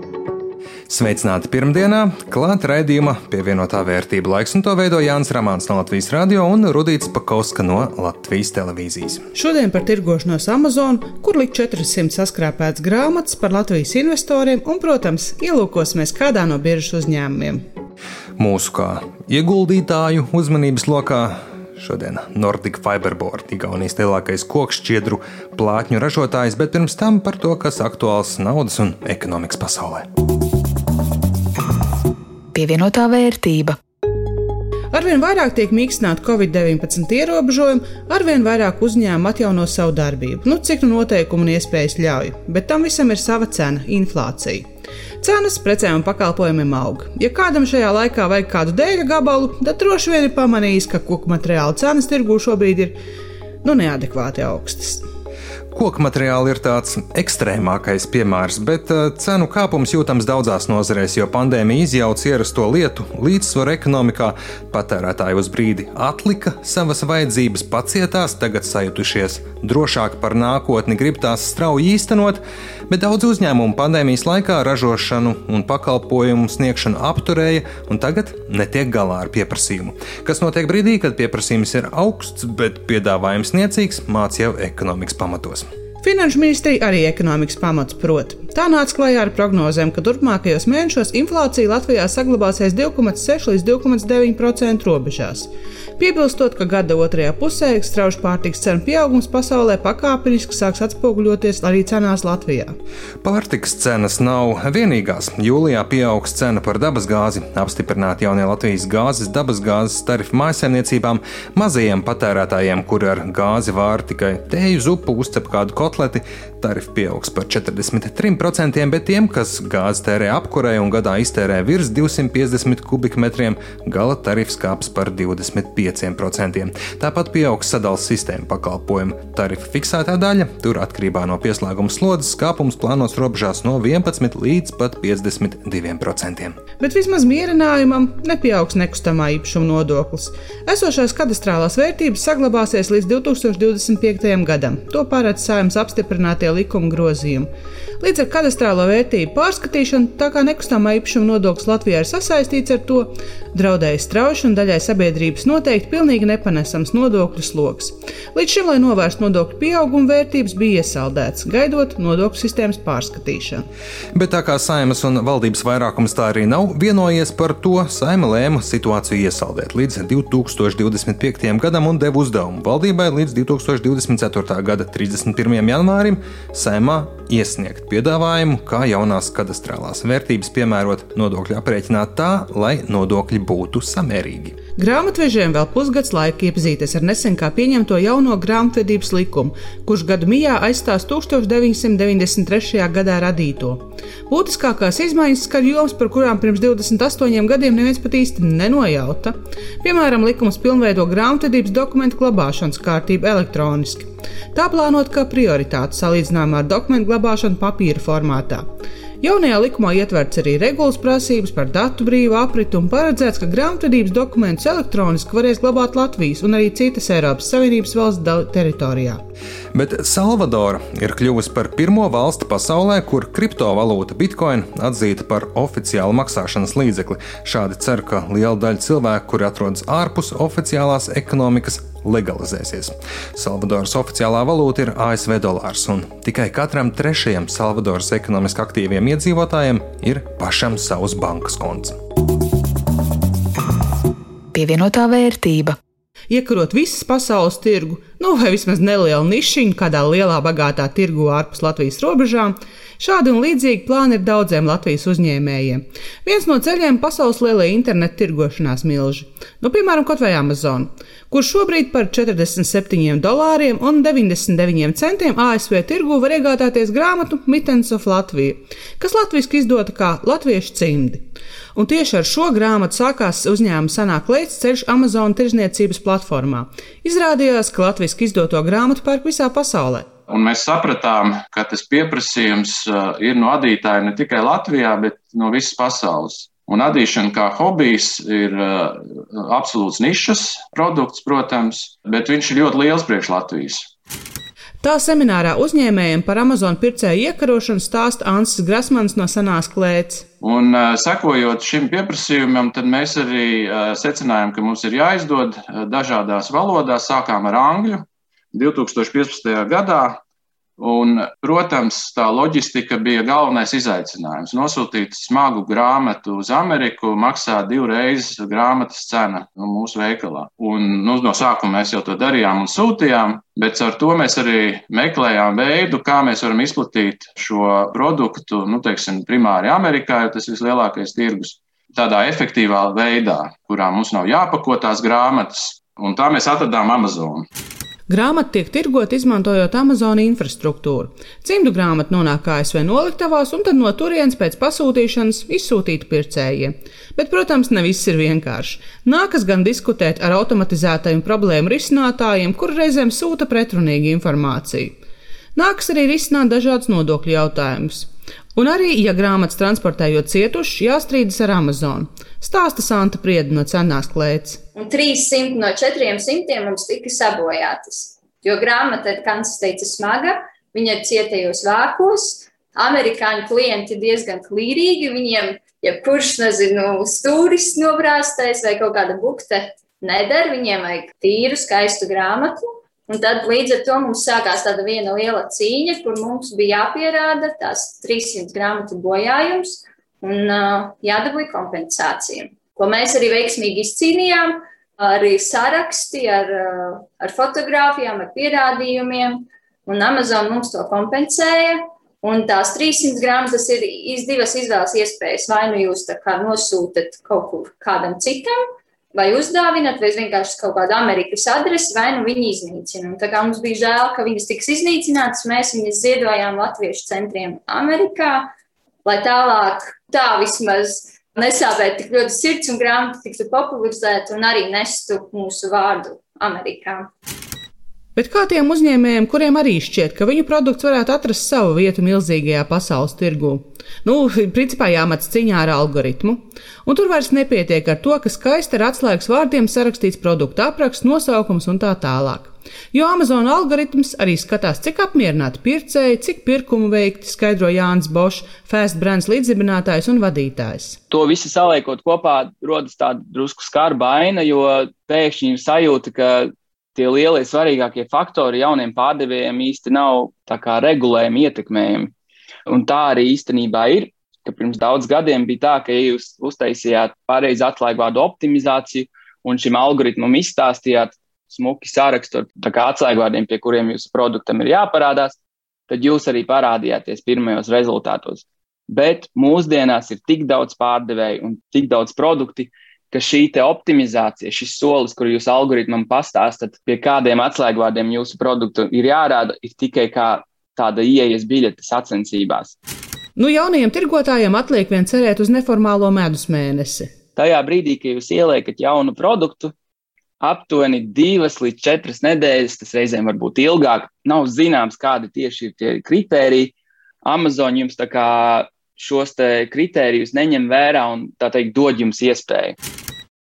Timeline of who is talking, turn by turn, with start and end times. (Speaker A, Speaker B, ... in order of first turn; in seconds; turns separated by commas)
Speaker A: 0.9-9.2, Speaker B: 9.3-17.6, Speaker A: 18.4-30.0, Speaker C: 32.5-33.8, Speaker B: 34.9-44.7, Speaker B: 45.2-52.9, Speaker B: 53.6-55.0, Speaker A: 55.7-85.7, Speaker B: 86.0-102.7, Speaker A: 103.2-136.6, Speaker B: 136.8-163.7, Speaker A: 164.1-184.5, Speaker B: 184.8-208.7, Speaker B: 209.2-219.2, Speaker A: 219.7-241.9, Speaker C: 244.5-245.8, Speaker B: 246.3-280.1, Speaker D: 280.3-293.9, Speaker B: 294.8-300.2, Speaker D: 300.4-310.2, Speaker D: 310.8-337.5, Speaker B: 338.1-354.9, Speaker B: 355.5-364.6, Speaker E: 364.7-408.6, Speaker E: 409.1-418.5, Speaker E: 419.0-427.1, Speaker B: 428.1-451.0, Speaker F: 451.1-462.1, Speaker F: 462.7-475.4, Speaker F: 475.9-492.7, Speaker B: 493.4-497.1, Speaker F: 497.4-499.7, Speaker F: 500.4-512.7